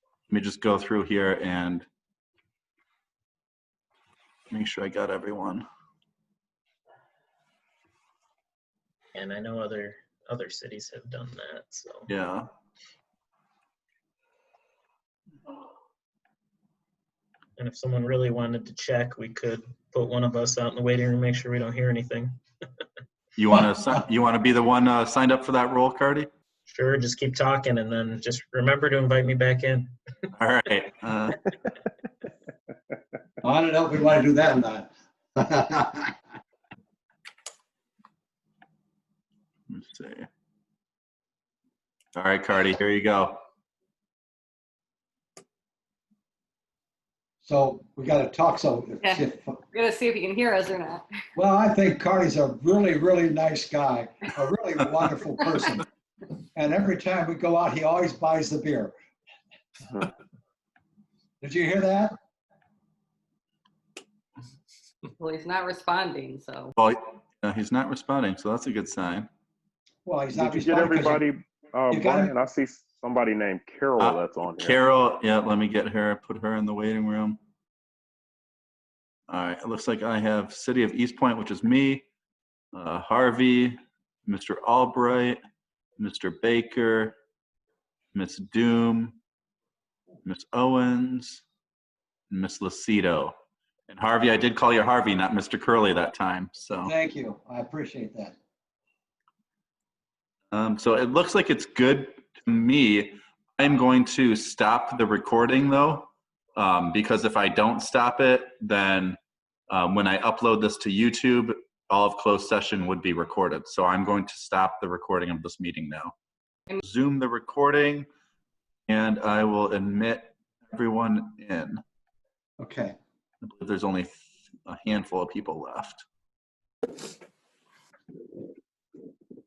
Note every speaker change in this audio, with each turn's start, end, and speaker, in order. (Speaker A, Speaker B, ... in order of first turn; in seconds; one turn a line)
Speaker A: 0.3-1.9
Speaker A: 4.5-5.6
Speaker B: 9.1-12.1
Speaker A: 12.1-12.5
Speaker B: 17.6-22.4
Speaker A: 23.4-26.3
Speaker B: 26.7-29.9
Speaker A: 30.4-31.5
Speaker C: 33.4-36.1
Speaker A: 39.7-40.3
Speaker A: 42.1-43.4
Speaker C: 47.4-49.6
Speaker D: 49.0-51.0
Speaker C: 51.4-55.9
Speaker C: 56.5-58.9
Speaker C: 61.4-62.1
Speaker D: 65.2-66.7
Speaker A: 66.8-69.3
Speaker C: 70.0-71.2
Speaker E: 70.3-74.8
Speaker C: 71.9-72.3
Speaker A: 74.0-77.4
Speaker A: 79.3-82.1
Speaker A: 82.7-85.4
Speaker A: 86.0-87.1
Speaker A: 88.1-89.2
Speaker A: 90.2-91.4
Speaker A: 92.3-93.3
Speaker A: 93.9-96.9
Speaker C: 96.8-98.3
Speaker A: 100.5-109.2
Speaker A: 109.7-116.1
Speaker A: 116.8-118.1
Speaker A: 118.9-121.8
Speaker C: 122.6-122.9
Speaker A: 123.4-124.2
Speaker A: 124.7-126.0